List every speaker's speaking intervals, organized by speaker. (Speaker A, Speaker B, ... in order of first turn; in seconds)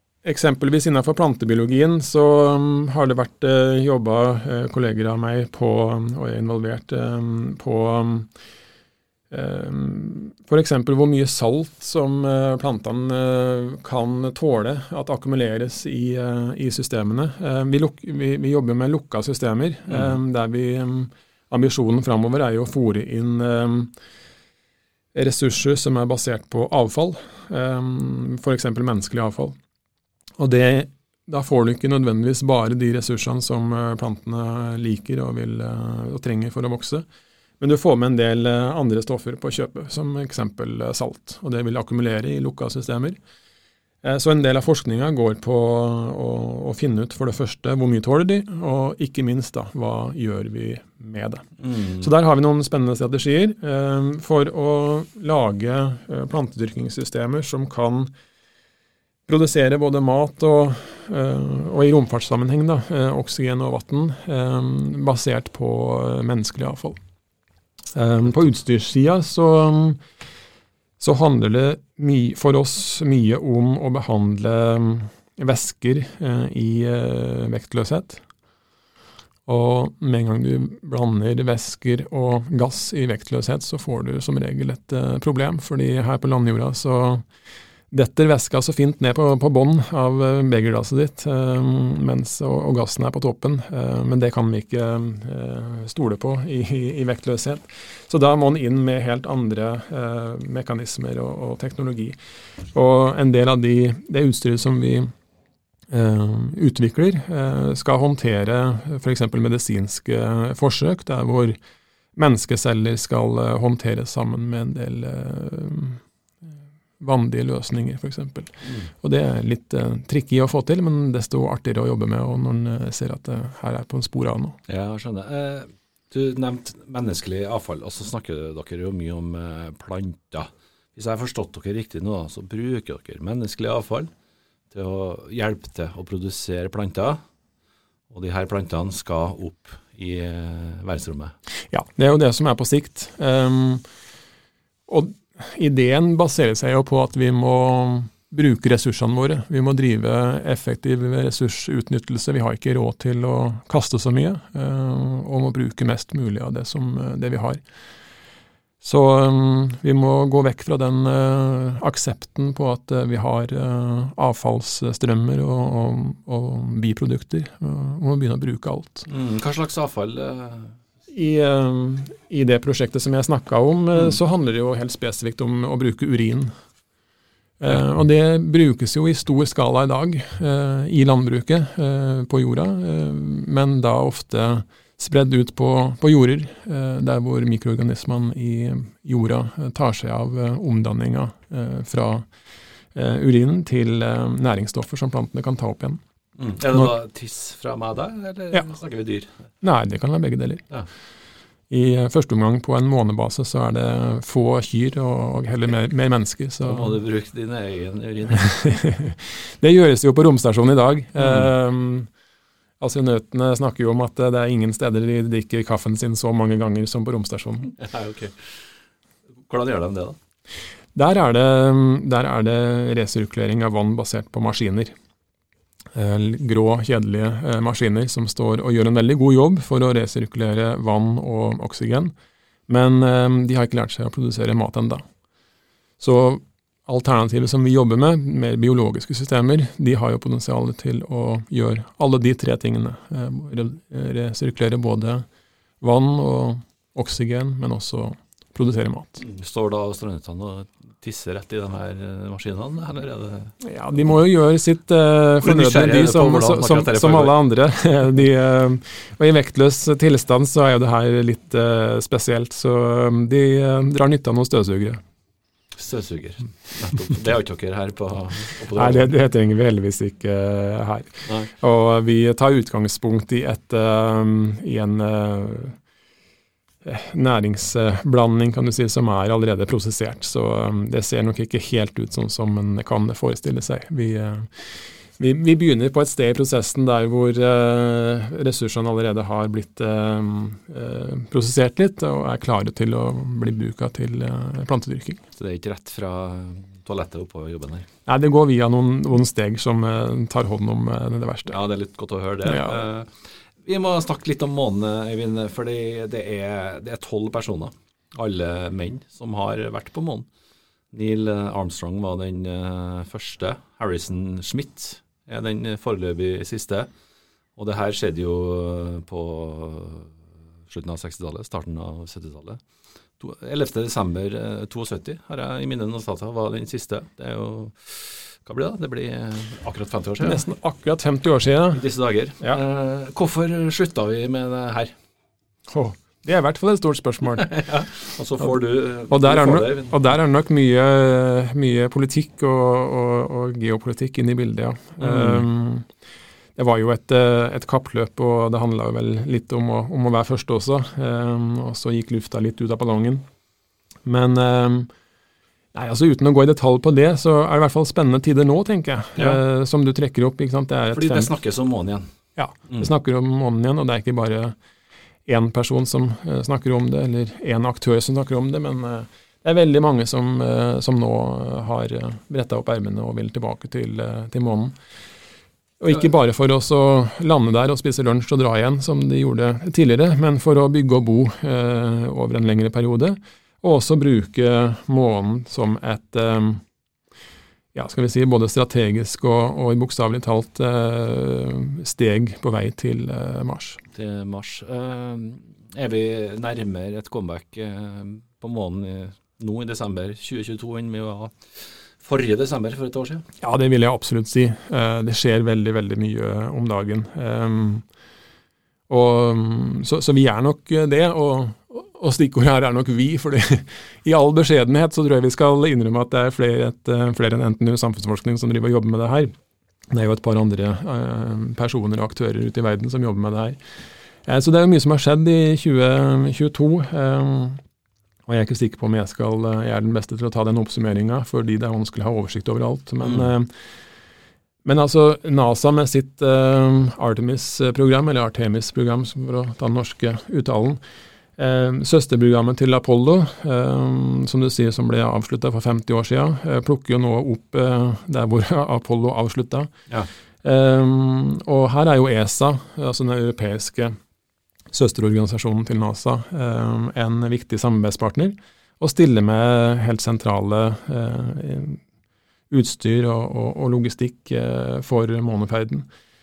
Speaker A: 0.2-8.3, 9.3-23.9, 25.1-29.6, 30.4-37.0, 37.6-43.2, 44.0-58.1, 59.3-67.0, 67.9-70.0, 71.0-78.2, 79.5-87.2, 87.9-102.2, 102.7-105.1, 105.9-111.6, 112.2-116.0, 117.0-124.6, 141.7-143.8, 144.9-157.6, 158.8-169.1, 171.1-176.5, 177.6-192.3, 192.9-196.0, 199.6-200.6, 201.7-207.0, 208.4-212.1, 212.8-217.7, 220.9-224.9, 225.9-232.1, 232.7-235.0, 236.0-245.3, 245.8-249.2, 253.6-265.0, 268.8-275.8, 276.9-284.5, 285.2-295.2, 298.1-301.6, 302.4-302.8, 330.2-331.8, 335.7-337.5, 339.1-345.9, 346.6-353.2, 354.1-354.9, 355.7-361.3, 362.4-364.6, 365.3-374.8, 375.8-386.6, 387.7-393.8, 403.4-407.9, 408.9-419.3, 419.9-423.6, 424.3-427.6, 428.3-433.5, 434.6-440.8, 441.4-449.7, 450.4-454.0, 454.7-461.8, 462.5-465.9
Speaker B: 19.9-20.2, 51.6-52.1, 118.6-118.9, 124.7-134.1, 134.7-137.2, 138.1-141.3, 169.1-170.8, 196.4-199.3, 206.6-208.5, 211.2-211.5, 217.8-218.6, 219.5-220.2, 249.2-253.6, 255.4-257.4, 265.8-269.1, 295.4-297.9, 301.5-310.3, 310.9-316.9, 317.6-320.2, 320.7-322.6, 323.2-330.4, 331.7-334.9, 337.4-340.0, 345.0-345.5, 359.2-359.4, 360.9-362.1, 393.9-403.3, 433.0-433.3